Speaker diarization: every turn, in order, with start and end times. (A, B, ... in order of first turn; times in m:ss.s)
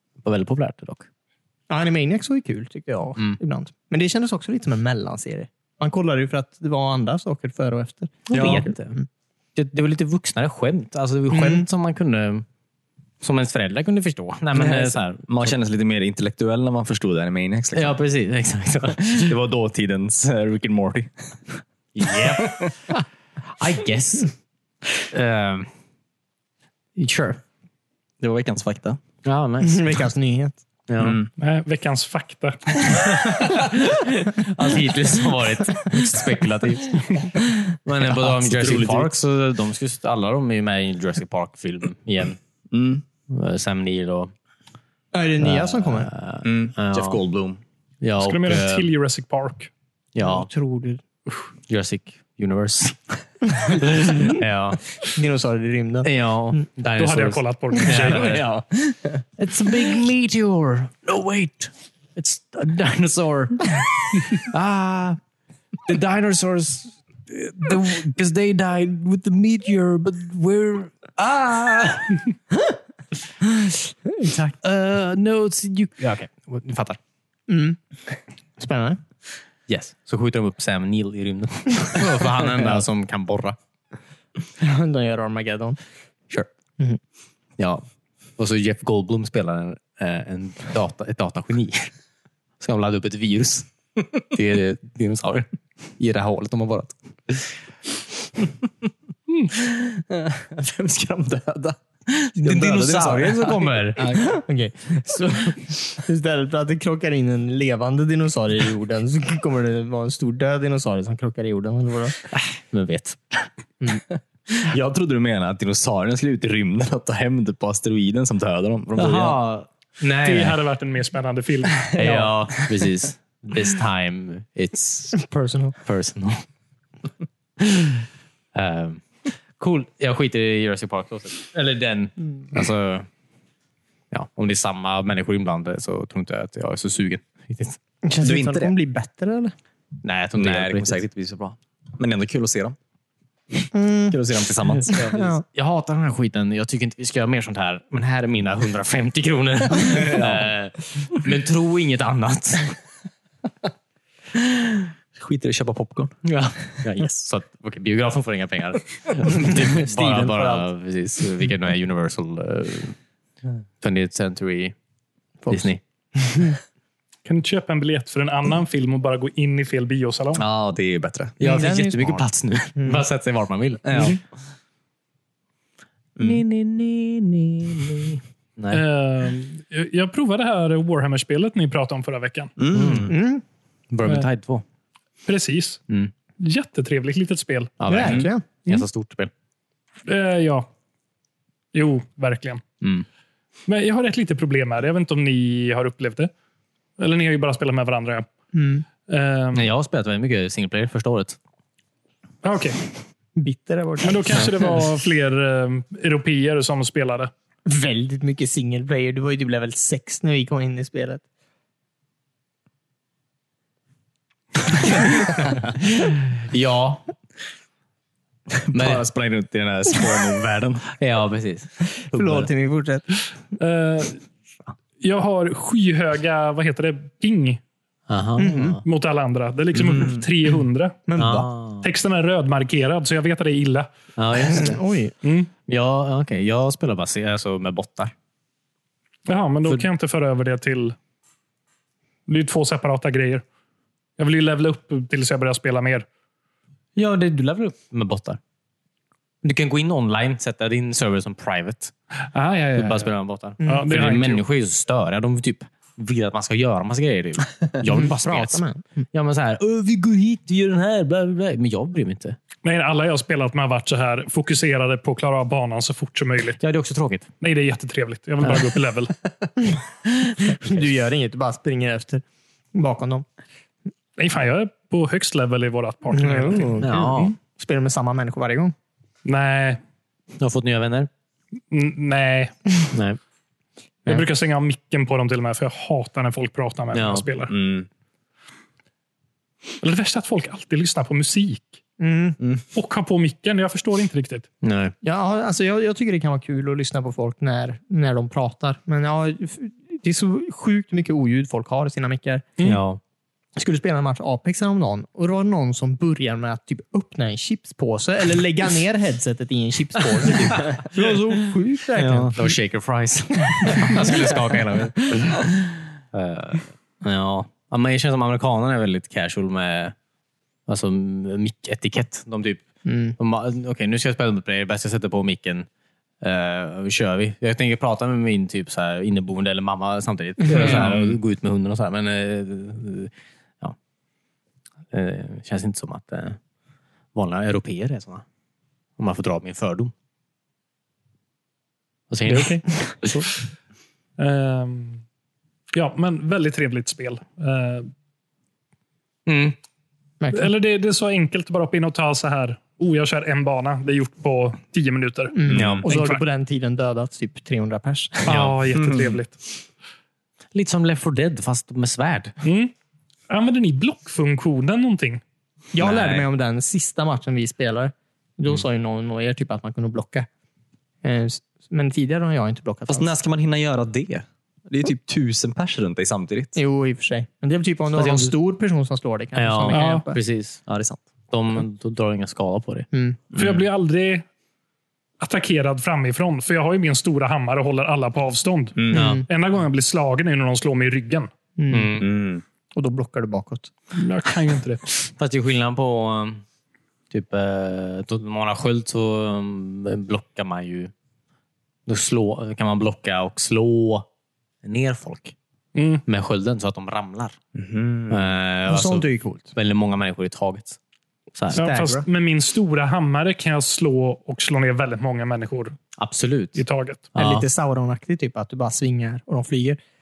0:00.2-0:01.1 A
0:01.7-0:09.0 B
0:08.3-0:09.0 A
0:08.3-0:08.6 C
0:09.5-0:12.4 A
0:11.3-0:11.7 B
0:13.2-0:15.5 A
0:14.6-0:14.9 B
0:15.3-0:18.0 C
0:17.7-0:19.3 A
0:19.1-0:21.5 C
0:21.9-0:22.7 A
0:22.3-0:22.7 C
0:23.6-0:24.3 A
0:25.1-0:25.7 A
0:27.0-0:27.4 A
0:28.2-0:29.0 C
0:29.2-0:30.0 A
0:29.6-0:30.6 B
0:30.9-0:31.2 A
0:31.0-0:31.3 C
0:31.4-0:32.9 D
0:33.1-0:37.2 A
0:37.8-0:42.4 A
0:38.0-0:39.2 C
0:42.7-0:43.0 C
0:43.3-0:44.3 A
0:45.1-0:46.1 B
0:45.4-0:47.2 A
0:46.4-0:47.6 C
0:48.0-0:48.9 A
0:48.2-0:49.7 D
0:50.1-0:50.5 A
0:50.2-0:51.0 B
0:51.3-0:54.8 A
0:53.8-0:54.3 B
0:55.0-0:56.1 B
0:56.0-0:58.5 A
0:57.0-0:58.4 D
0:57.8-0:59.2 B
0:59.4-1:05.2 A
1:05.8-1:12.2 A
1:14.0-1:14.5 B
1:14.6-1:17.0 A
1:17.5-1:17.8 B
1:18.6-1:19.0 B
1:19.7-1:23.6 A
1:24.6-1:25.8 B
1:27.6-1:27.8 A
1:28.4-1:31.9 A
1:32.6-1:33.7 A
1:34.3-1:37.5 A
1:40.4-1:44.2 C
1:42.4-1:44.2 A
1:44.0-1:52.2 B
1:52.3-1:53.5 A
1:53.8-1:54.0 B
1:54.6-1:59.4 C
1:58.9-2:00.6 A
2:00.2-2:02.4 D
2:01.9-2:05.2 A
2:05.1-2:05.8 B
2:05.8-2:06.4 A
2:07.6-2:07.9 A
2:08.5-2:09.0 A
2:09.6-2:13.1 A
2:14.1-2:17.8 A
2:18.0-2:19.5 B
2:18.2-2:18.7 C
2:20.0-2:21.0 A
2:20.4-2:22.8 C
2:23.7-2:24.2 B
2:24.1-2:25.1 C
2:24.9-2:32.8 A
2:29.8-2:30.4 C
2:35.1-2:36.2 C
2:36.2-2:43.0 A
2:39.2-2:40.7 C
2:43.8-2:44.8 A
2:45.4-2:46.6 B
2:45.5-2:45.8 A
2:47.2-2:50.4 D
2:50.3-2:51.6 C
2:51.4-2:54.2 A
2:51.4-2:52.2 B
2:52.8-2:53.0 B
2:53.8-2:54.2 C
2:56.2-2:56.4 C
2:56.2-2:58.8 A
2:58.7-3:02.5 D
3:02.6-3:03.1 C
3:02.7-3:03.1 A
3:03.1-3:03.4 B
3:03.9-3:04.6 A
3:05.2-3:05.8 D
3:06.4-3:07.7 D
3:07.8-3:09.3 A
3:07.9-3:08.8 B
3:10.0-3:10.7 D
3:11.7-3:12.6 D
3:13.7-3:16.3 D
3:17.0-3:18.3 D
3:18.5-3:18.8 B
3:19.1-3:19.7 D
3:19.5-3:21.4 A
3:22.4-3:22.8 D
3:23.4-3:24.7 B
3:24.0-3:27.3 D
3:27.7-3:31.2 B
3:35.8-3:37.1 A
3:38.7-3:40.8 C
3:38.7-3:39.0 A
3:40.9-3:42.5 A
3:42.0-3:43.1 B
3:43.6-3:44.2 D
3:45.0-3:47.6 D
3:48.1-3:48.8 A
3:48.4-3:48.8 B
3:48.8-3:51.0 D
3:49.9-3:50.2 C
3:51.1-3:51.5 B
3:51.2-3:51.9 A
3:51.8-3:53.9 D
3:54.2-3:54.8 A
3:54.4-3:55.1 B
3:55.2-3:55.5 D
3:55.7-3:58.1 A
3:59.3-4:01.0 D
4:02.3-4:03.4 D
4:04.2-4:06.0 D
4:07.0-4:08.4 A
4:09.4-4:11.9 A
4:12.3-4:13.1 D
4:12.7-4:22.4 A
4:13.6-4:13.9 B
4:13.6-4:14.4 D
4:17.8-4:19.1 B
4:22.6-4:26.6 D
4:26.6-4:27.3 A
4:27.4-4:29.1 D
4:29.7-4:32.2 B
4:32.7-4:33.2 B
4:34.2-4:37.3 D
4:36.1-4:38.7 B
4:36.8-4:37.3 A
4:39.2-4:39.8 D
4:40.4-4:41.1 A
4:41.7-4:42.5 D
4:42.9-4:43.2 A
4:44.1-4:47.5 D
4:46.9-4:47.3 A
4:47.5-4:47.9 C
4:49.8-4:51.8 D
4:52.0-4:52.4 B
4:52.7-4:54.5 D
4:54.6-4:54.9 A
4:55.0-5:02.5 B
5:02.6-5:03.0 A
5:03.6-5:12.5 B
5:12.0-5:15.4 A
5:13.6-5:14.3 B
5:16.1-5:19.9 A
5:20.7-5:22.6 A
5:22.8-5:23.2 B
5:23.2-5:25.7 A
5:26.2-5:33.8 A
5:30.6-5:31.1 C
5:34.9-5:36.4 A
5:37.1-5:38.2 A
5:39.0-5:39.9 A
5:42.1-5:43.2 A
5:42.2-5:42.6 D
5:44.2-5:45.0 D
5:45.7-5:47.9 D
5:49.2-5:49.6 A
5:50.2-5:50.5 B
5:50.3-5:56.2 D
5:55.3-5:58.3 B
5:55.5-5:55.8 C
5:58.2-5:59.4 D
5:58.3-5:58.6 A
5:58.7-5:59.1 C
6:00.5-6:02.3 A
6:02.4-6:02.7 D
6:03.3-6:05.2 D
6:05.7-6:10.3 B
6:05.8-6:06.3 C
6:11.0-6:13.1 B
6:12.9-6:16.6 C
6:16.5-6:20.2 B
6:17.9-6:18.3 A
6:19.3-6:20.6 A
6:19.7-6:20.0 D
6:20.7-6:21.0 C
6:21.3-6:22.9 A
6:22.9-6:23.2 B
6:23.3-6:23.6 C
6:23.3-6:24.3 D
6:25.2-6:31.3 D
6:28.8-6:29.0 C
6:28.9-6:29.2 A
6:28.9-6:29.2 B
6:31.6-6:32.1 B
6:31.7-6:32.1 A
6:32.0-6:32.4 C
6:32.7-6:33.7 B
6:33.9-6:34.8 D
6:35.1-6:36.4 A
6:37.1-6:40.9 A
6:41.9-6:44.1 A
6:44.6-6:45.3 A
6:45.7-6:46.0 D
6:46.0-6:47.4 A
6:47.5-6:48.3 C
6:48.1-6:50.8 A
6:48.7-6:49.5 B
6:51.3-6:51.7 A
6:51.5-6:55.8 D
6:51.5-6:52.0 B
6:56.0-6:56.6 A
6:56.5-6:57.1 D
6:57.1-6:57.4 A
6:57.2-6:59.8 B